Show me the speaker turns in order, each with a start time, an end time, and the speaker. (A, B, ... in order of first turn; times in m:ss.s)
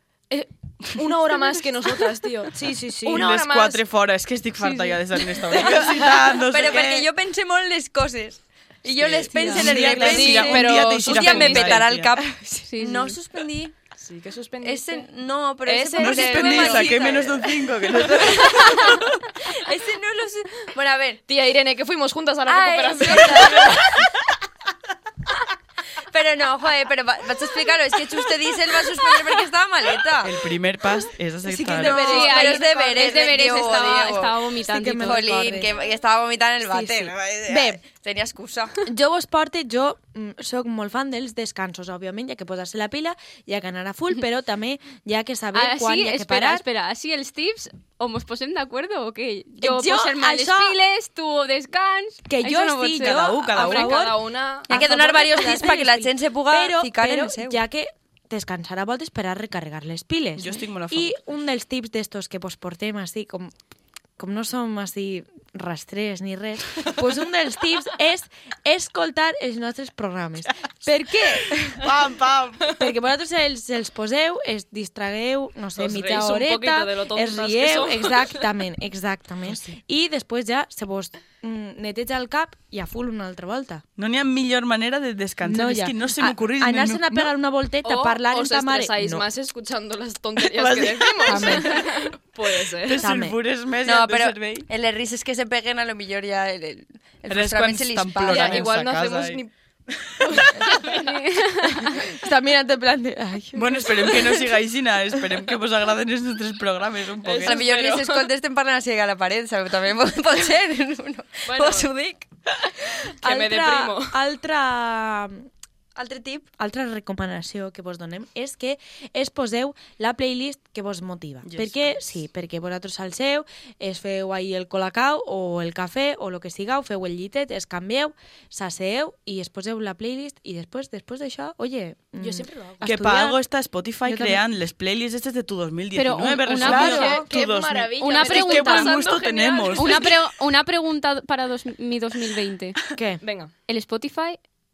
0:00.3-0:03.8 A
0:02.5-0:03.2 B
0:03.1-0:07.1 C
0:04.6-0:04.9 D
0:06.5-0:13.7 E
0:08.9-0:12.1 C
0:09.4-0:10.6 B
0:09.9-0:11.7 A
0:11.1-0:11.7 D
0:12.6-0:13.2 D
0:14.0-0:15.1 A
0:14.6-0:21.2 E
0:15.6-0:17.2 A
0:16.0-0:19.2 C
0:21.3-0:23.8 A
0:22.5-0:24.0 E
0:26.1-0:30.4 E
0:30.2-0:32.1 C
0:31.4-0:32.7 B
0:31.7-0:34.4 E
0:31.8-0:35.3 D
0:34.7-0:35.7 B
0:34.9-0:38.8 E
0:36.6-0:37.8 B
0:38.8-0:46.6 B
0:45.5-0:53.3 D
0:49.6-0:50.8 B
0:52.3-0:54.2 B
0:53.0-0:54.1 C
0:53.5-0:54.9 A
0:54.7-1:03.5 B
0:54.7-0:57.6 E
1:00.4-1:01.2 C
1:04.2-1:11.9 B
1:11.6-1:12.8 C
1:12.7-1:23.8 B
1:15.8-1:18.5 A
1:24.0-1:27.3 C
1:25.4-1:29.2 B
1:27.8-1:33.0 A
1:30.5-1:31.8 C
1:31.2-1:31.8 B
1:32.8-1:34.7 C
1:33.0-1:33.4 B
1:33.8-1:38.8 E
1:37.3-1:40.5 C
1:38.3-1:39.6 A
1:40.1-1:41.1 A
1:40.8-1:42.0 D
1:42.0-1:44.4 B
1:43.5-1:47.6 C
1:47.2-1:48.3 A
1:47.4-1:52.3 E
1:51.4-1:51.9 A
1:52.9-1:55.5 B
1:53.2-1:54.2 A
1:56.0-1:56.5 E
1:56.6-2:13.4 B
2:01.4-2:02.0 C
2:12.2-2:12.8 A
2:12.8-2:20.2 C
2:14.0-2:14.4 B
2:15.9-2:17.2 D
2:16.6-2:17.3 B
2:16.7-2:20.0 A
2:18.0-2:19.0 D
2:19.8-2:22.8 D
2:22.9-2:23.2 B
2:23.2-2:23.5 A
2:23.7-2:24.4 D